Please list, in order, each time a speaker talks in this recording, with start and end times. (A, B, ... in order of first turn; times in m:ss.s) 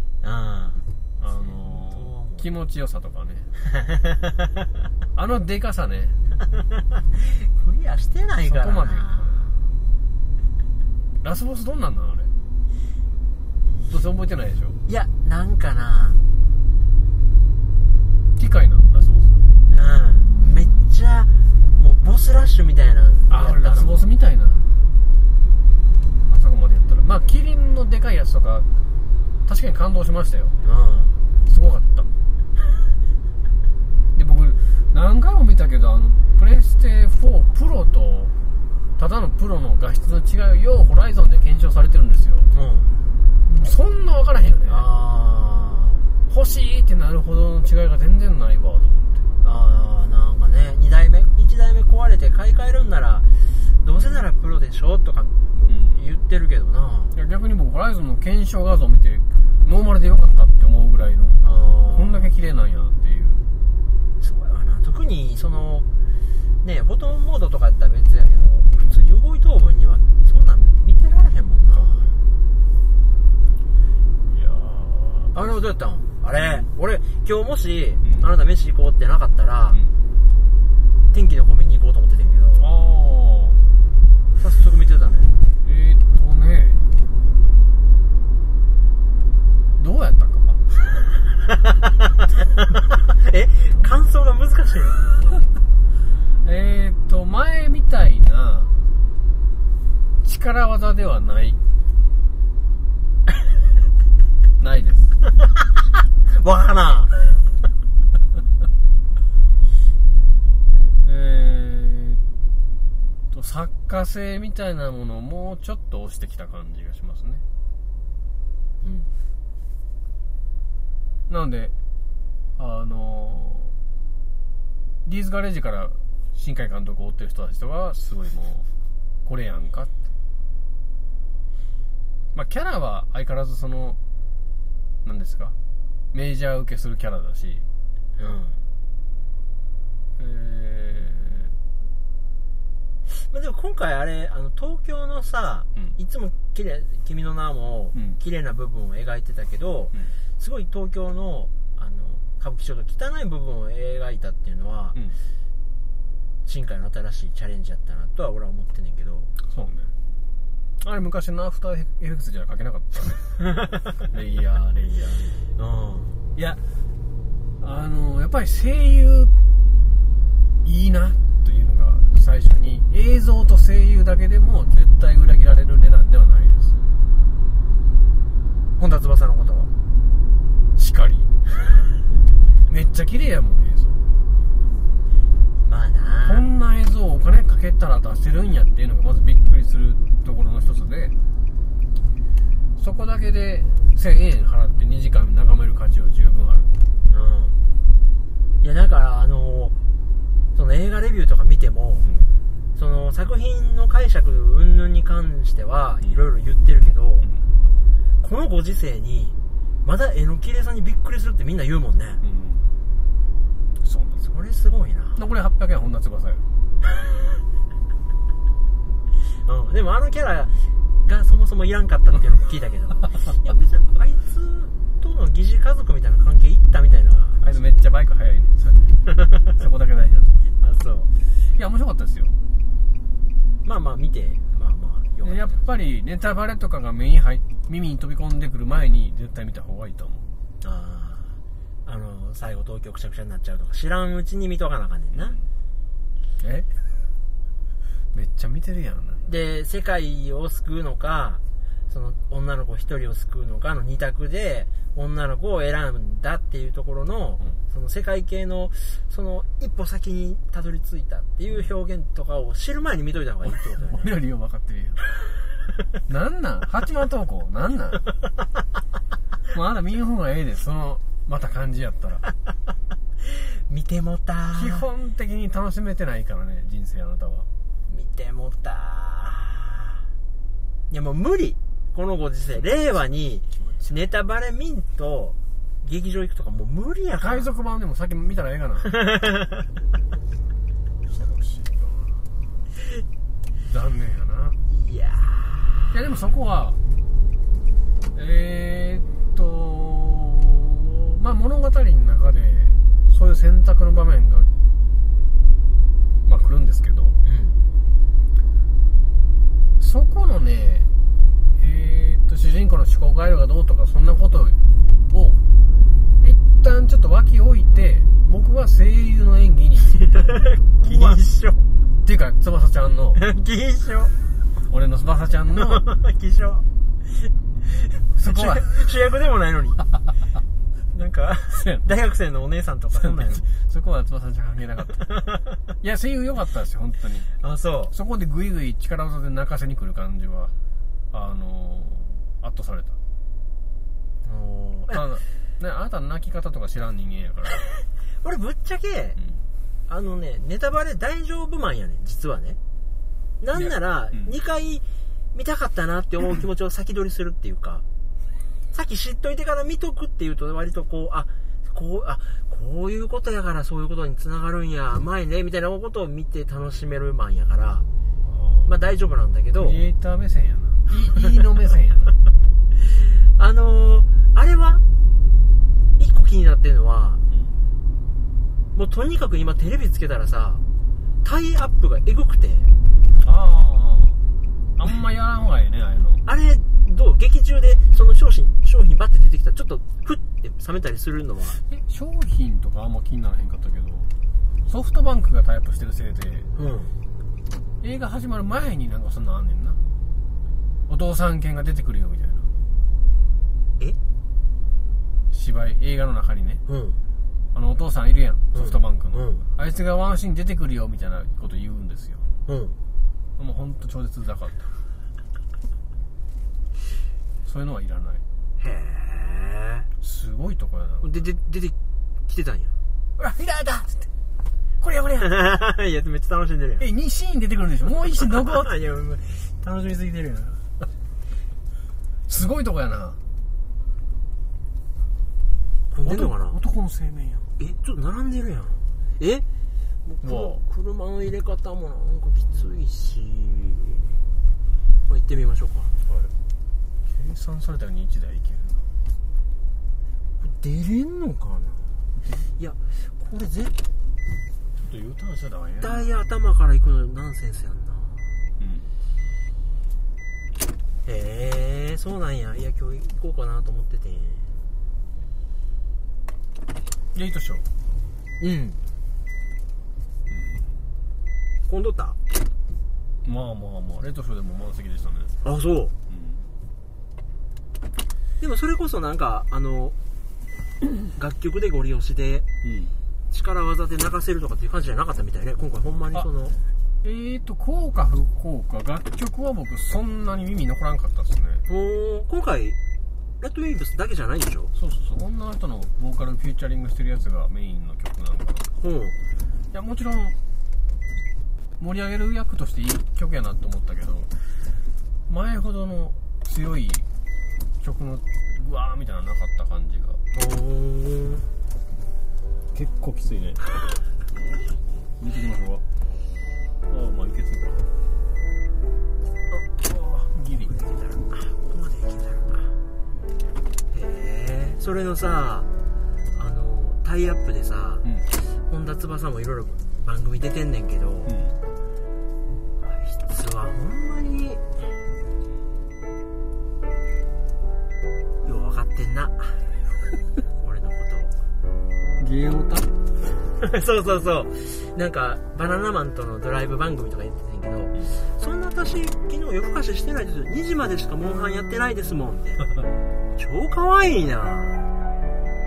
0:00.2-0:02.4 A
0:01.2-0:03.5 B
0:03.6-0:04.5 A
0:05.1-0:06.2 B
0:06.5-0:09.5 A
0:08.4-0:09.5 B
0:11.2-0:12.3 B
0:13.9-0:14.8 B
0:14.9-0:16.2 A
0:18.4-0:19.4 B
0:19.7-0:24.1 A
0:23.3-0:24.6 B
0:26.3-0:28.7 B
0:29.4-0:30.6 B
0:30.6-0:31.2 A
0:31.4-0:32.1 B
0:34.1-0:38.3 B
0:39.0-0:42.5 B
0:42.5-0:42.9 A
0:43.4-0:44.8 B
0:44.7-0:46.0 A
0:46.3-0:49.2 B
0:49.4-0:57.1 A
0:55.7-0:56.0 B
0:57.1-1:03.4 B
1:01.4-1:02.3 A
1:04.2-1:05.8 A
1:06.6-1:12.1 A
1:11.7-1:12.2 B
1:14.2-1:15.6 B
1:15.3-1:19.8 A
1:16.4-1:16.6 B
1:21.1-1:22.7 A
1:22.6-1:23.7 B
1:24.4-1:25.3 A
1:25.6-1:26.8 B
1:29.8-1:30.6 B
1:31.5-1:35.4 A
1:36.4-1:38.7 B
1:40.2-1:41.6 B
1:44.6-1:45.1 B
1:46.3-1:47.3 A
1:51.0-1:52.2 B
1:53.3-1:57.4 B
1:58.8-1:59.1 A
2:01.3-2:01.7 B
2:02.6-2:03.8 B
2:05.0-2:08.7 B
2:09.2-2:09.9 B
2:12.3-2:14.0 B
2:15.0-2:15.5 B
2:16.1-2:17.7 B
2:18.2-2:18.6 A
2:20.2-2:21.6 B
2:23.1-2:35.0 A
2:36.4-2:39.3 A
2:39.4-2:39.9 B
2:40.8-2:43.4 B
2:44.0-2:45.4 B
2:45.6-2:46.3 A
2:47.6-2:49.3 B
2:50.6-2:56.8 B
2:58.8-2:59.7 A
3:00.8-3:01.3 B
3:02.7-3:04.0 B
3:05.6-3:06.4 A
3:06.2-3:11.1 B
3:12.8-3:16.7 B
3:17.1-3:17.6 A
3:18.6-3:19.8 A
3:20.5-3:22.1 A
3:22.8-3:27.3 A
3:28.2-3:32.2 A
3:32.2-3:32.7 B
3:33.8-3:34.2 B
3:34.2-3:35.2 A
3:35.2-3:36.4 B
3:39.4-3:47.4 A
3:47.4-3:50.4 B
3:49.2-3:49.4 A
3:50.6-3:51.1 A
3:51.6-3:52.3 B
3:53.6-3:55.7 A
3:55.2-4:00.3 B
4:00.6-4:05.4 A
4:05.1-4:05.4 B
4:06.4-4:06.7 B
4:08.1-4:09.3 B
4:09.2-4:24.1 A
4:23.5-4:25.0 B
4:26.1-4:28.0 B
4:29.5-4:32.2 B
4:33.2-4:34.8 A
4:34.5-4:37.5 B
4:37.9-4:40.0 A
4:40.9-4:47.5 A
4:43.6-4:43.9 B
4:47.2-4:48.9 B
4:48.9-4:49.6 A
4:51.1-4:52.6 B
4:53.6-4:54.6 B
4:54.7-4:55.9 A
4:55.9-4:56.8 B
4:58.1-5:04.5 B
5:06.2-5:07.2 B
5:07.2-5:07.6 A
5:09.8-5:10.9 B
5:11.6-5:14.6 B
5:15.1-5:15.4 B
5:16.2-5:21.2 B
5:20.0-5:21.6 A
5:22.0-5:23.2 B
5:23.1-5:24.1 A
5:24.7-5:25.8 B
5:25.5-5:26.6 A
5:27.7-5:29.8 A
5:28.1-5:28.7 B
5:30.9-5:33.5 A
5:31.6-5:31.9 B
5:33.0-5:35.0 B
5:35.8-5:37.3 B
5:37.4-5:37.9 A
5:37.9-5:40.5 B
5:41.1-5:43.0 B
5:44.2-5:45.0 A
5:44.9-5:47.6 B
5:48.2-5:49.2 A
5:49.9-5:52.6 A
5:53.4-5:57.8 A
5:53.6-5:54.3 B
5:58.7-6:07.8 A
6:08.2-6:08.7 B
6:08.6-6:09.8 A
6:09.6-6:12.2 B
6:12.8-6:14.8 A
6:16.0-6:17.2 A
6:17.3-6:17.6 B
6:18.7-6:20.6 A
6:21.2-6:22.7 A
6:23.2-6:24.2 B
6:24.8-6:26.2 B
6:26.2-6:31.6 A
6:31.7-6:34.1 B
6:34.7-6:36.5 B
6:36.5-6:36.9 A
6:37.8-6:39.8 B
6:40.9-6:42.5 B
6:45.3-6:46.6 B
6:46.7-6:47.0 A
6:47.5-6:52.2 B
6:48.5-6:49.4 A
6:52.5-6:52.8 A
6:53.4-6:54.7 B
6:57.4-6:58.2 B
6:58.6-6:59.9 A
7:00.0-7:01.2 B
7:01.0-7:01.7 A
7:02.3-7:02.7 A
7:03.2-7:04.1 B
7:04.8-7:05.3 B
7:05.2-7:06.8 A
7:06.8-7:08.7 B
7:08.2-7:10.6 A
7:12.3-7:13.2 B
7:15.9-7:16.6 A
7:16.0-7:17.5 B
7:17.6-7:19.4 A
7:20.0-7:24.2 A
7:20.2-7:20.6 B
7:25.1-7:25.9 A
7:26.1-7:26.3 B
7:27.1-7:28.9 B
7:30.4-7:32.0 A
7:32.2-7:32.5 B
7:32.6-7:33.7 A
7:34.8-7:36.1 B
7:35.8-7:38.4 A
7:38.6-7:38.9 B
7:41.0-7:44.5 A
7:47.1-7:47.7 B
7:48.4-7:48.8 A
7:50.3-7:50.7 B
7:51.7-7:52.2 A
7:53.2-7:55.3 B
7:55.4-7:55.9 A
7:56.1-7:56.5 B
7:58.4-7:59.9 A
8:01.0-8:02.5 A
8:02.6-8:02.9 B
8:03.3-8:06.6 A
8:07.0-8:11.6 B
8:11.7-8:12.8 A
8:13.4-8:14.7 A
8:14.7-8:18.7 B
8:18.8-8:19.1 A
8:19.7-8:20.4 B
8:21.8-8:24.3 B
8:25.3-8:27.1 B
8:27.8-8:30.2 B
8:30.3-8:31.4 A
8:32.7-8:33.6 B
8:35.2-8:35.8 B
8:36.9-8:37.9 B
8:39.7-8:41.2 B
8:41.3-8:42.7 A
8:43.9-8:45.7 A
8:46.4-8:51.4 A
8:51.2-8:51.6 B
8:52.8-8:54.6 A
8:58.4-8:59.6 A
9:00.6-9:01.3 A
9:02.2-9:02.9 B
9:03.6-9:12.7 A
9:13.3-9:14.8 A